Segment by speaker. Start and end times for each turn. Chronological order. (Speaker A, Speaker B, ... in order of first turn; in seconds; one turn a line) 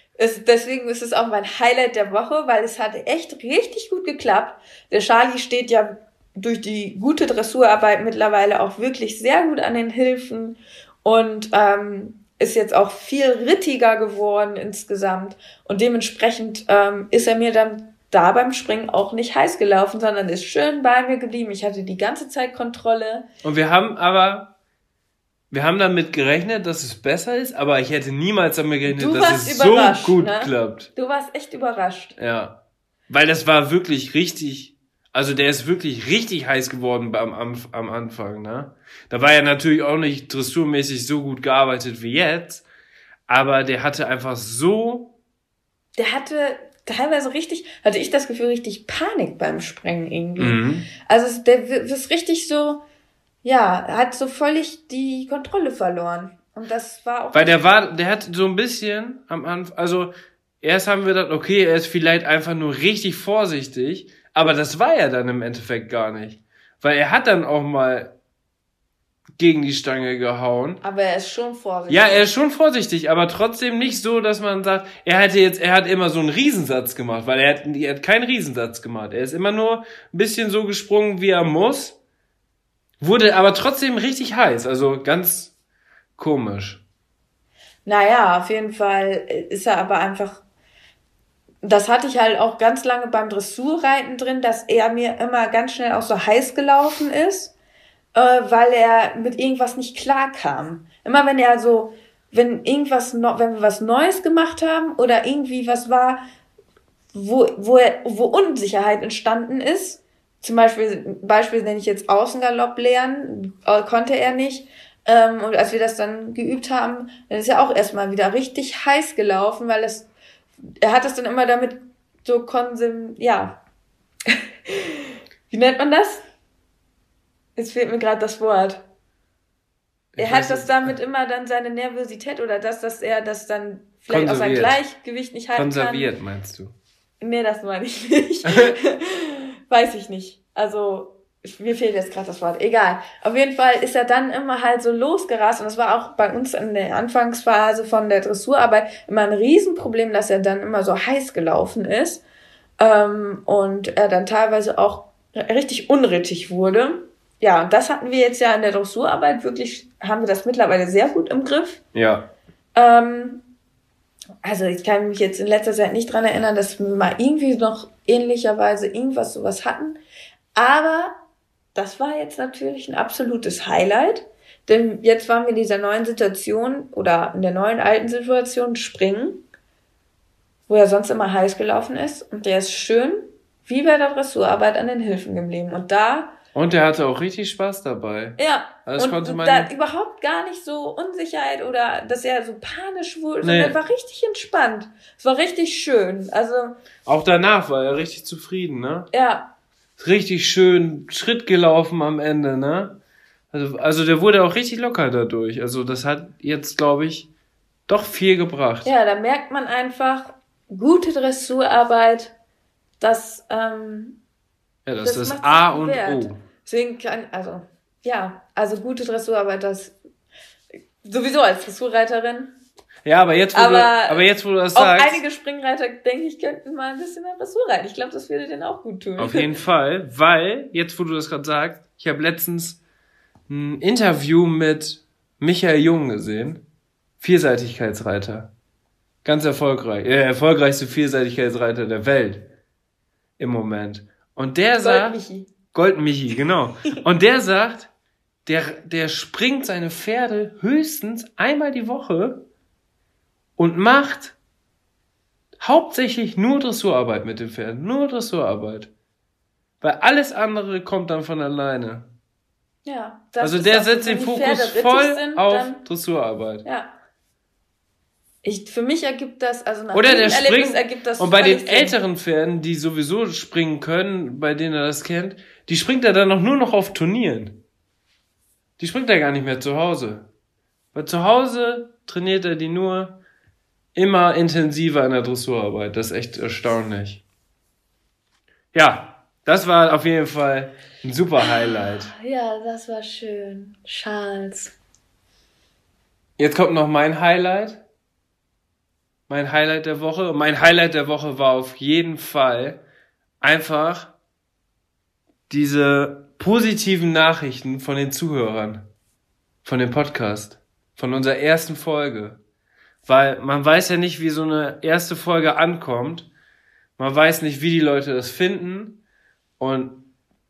Speaker A: 0.2-23.3
Speaker B: 23.4-24.5
Speaker B: 25.5-30.9
Speaker A: 28.9-32.2
Speaker B: 32.2-32.6
Speaker B: 33.1-42.6
Speaker B: 43.3-45.1
Speaker A: 46.0-52.8
Speaker B: 50.4-50.9
Speaker A: 53.4-57.7
Speaker B: 57.3-68.1
Speaker B: 69.4-70.8
Speaker A: 70.8-72.3
Speaker B: 71.9-82.0
Speaker B: 83.0-85.5
Speaker B: 86.2-86.8
Speaker A: 87.8-90.4
Speaker A: 91.6-97.5
Speaker A: 98.1-106.2
Speaker A: 107.1-120.1
Speaker A: 120.8-123.6
Speaker A: 124.3-126.2
Speaker A: 127.5-128.8
Speaker B: 130.1-130.9
Speaker A: 130.2-136.1
Speaker B: 134.1-134.8
Speaker B: 135.6-136.7
Speaker A: 137.2-152.2
Speaker A: 152.8-161.8
Speaker B: 161.9-162.3
Speaker A: 162.7-163.4
Speaker A: 164.4-170.0
Speaker A: 170.6-171.2
Speaker A: 171.7-179.4
Speaker A: 180.7-186.3
Speaker B: 186.5-189.7
Speaker A: 188.4-196.7
Speaker B: 193.4-193.8
Speaker B: 197.1-199.1
Speaker A: 199.1-199.5
Speaker B: 200.0-203.0
Speaker B: 203.5-207.3
Speaker B: 207.9-208.9
Speaker A: 208.8-212.3
Speaker A: 213.0-214.2
Speaker B: 214.8-216.4
Speaker A: 215.0-219.9
Speaker A: 221.0-222.6
Speaker B: 223.1-225.2
Speaker A: 223.5-229.5
Speaker B: 229.2-232.8
Speaker B: 233.5-236.6
Speaker B: 237.2-238.5
Speaker B: 239.2-242.5
Speaker B: 243.4-245.2
Speaker A: 244.8-245.5
Speaker B: 245.7-247.9
Speaker B: 248.4-252.4
Speaker B: 253.6-254.4
Speaker B: 255.6-258.9
Speaker B: 259.8-262.1
Speaker A: 262.8-265.8
Speaker B: 263.4-266.6
Speaker A: 266.6-266.9
Speaker A: 268.4-272.0
Speaker B: 269.9-277.6
Speaker B: 278.8-280.3
Speaker B: 280.9-283.2
Speaker B: 283.9-287.2
Speaker B: 288.7-292.1
Speaker A: 291.4-294.7
Speaker B: 296.4-297.8
Speaker B: 299.3-302.8
Speaker B: 303.4-304.1
Speaker B: 305.5-308.9
Speaker B: 309.6-312.4
Speaker B: 313.1-316.3
Speaker B: 317.0-319.0
Speaker B: 319.6-320.1